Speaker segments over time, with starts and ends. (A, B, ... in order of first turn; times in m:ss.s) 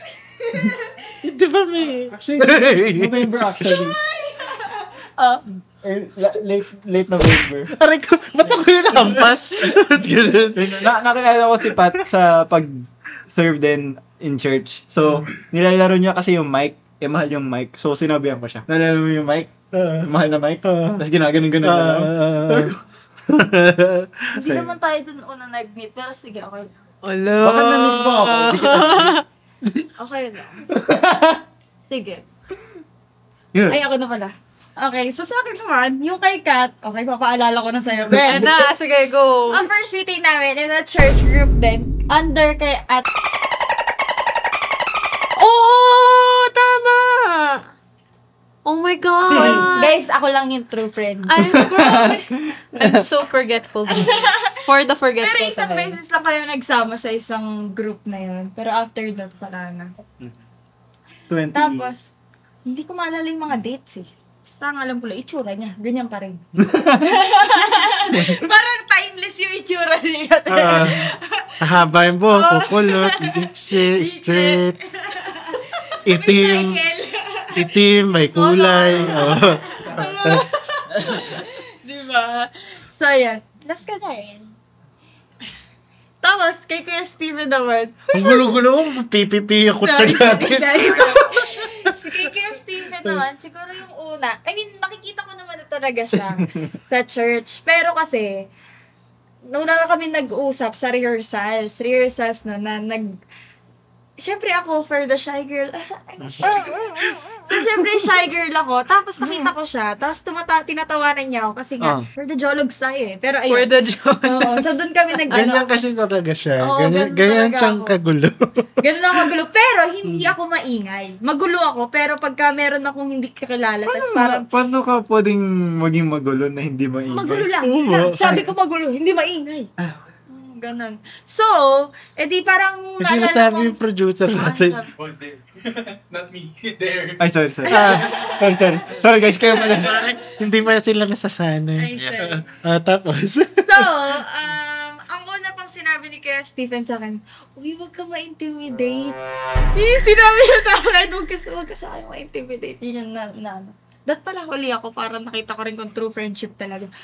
0:00.3-0:01.1 A
0:01.2-0:03.8 B
0:02.1-0:04.0 C
0:03.6-0:05.4 A
0:05.8-0:07.7 C
0:07.7-0:10.9 B
0:10.5-0:19.5 C
0:19.7-0:20.1 B
0:20.0-0:22.8 C
0:20.6-0:21.0 B
0:21.6-0:22.7 B
0:23.3-0:24.3 B
0:24.3-0:26.8 A
0:24.4-0:24.7 C
0:27.0-0:29.2 D
0:27.4-0:29.9 C
0:30.0-0:30.6 A
0:30.7-0:31.4 C
0:31.9-0:32.2 A
0:33.5-0:33.8 C
0:33.7-0:38.7 A
0:38.1-0:39.7 D
0:39.5-0:43.1 A
0:45.4-0:47.6 D
0:48.6-0:50.0 D
0:49.3-0:52.1 A
0:51.3-0:56.0 D
0:51.4-0:53.0 C
0:53.9-0:54.6 A
0:55.2-0:59.9 A
1:01.3-1:01.9 C
1:01.5-1:02.1 A
1:02.6-1:06.4 A
1:06.6-1:07.2 C
1:07.0-1:11.5 A
1:08.1-1:08.4 C
1:10.5-1:11.0 B
1:11.6-1:14.7 B
1:12.3-1:24.6 A
1:16.0-1:16.8 B
1:17.5-1:20.4 B
1:18.9-1:19.3 C
1:26.2-1:28.6 A
1:28.1-1:31.7 B
1:29.8-1:38.5 A
1:36.2-1:36.6 C
1:39.4-1:43.2 A
1:44.2-1:53.7 A
1:46.3-1:47.0 B
1:51.8-1:52.0 C
1:53.5-1:55.4 D
1:54.2-1:55.7 A
1:55.3-1:58.4 B
1:56.6-1:57.9 A
1:58.8-2:04.4 A
2:00.0-2:00.3 B
2:03.8-2:07.5 C
2:07.1-2:09.7 A
2:07.6-2:08.5 B
2:10.3-2:13.8 A
2:13.0-2:14.8 B
2:14.3-2:14.9 A
2:14.9-2:18.4 E
2:17.2-2:20.1 C
2:17.7-2:18.2 B
2:17.7-2:18.5 A
2:18.9-2:19.8 E
2:19.4-2:20.3 A
2:20.2-2:23.9 B
2:21.8-2:22.5 A
2:23.6-2:29.2 A
2:29.7-2:36.9 A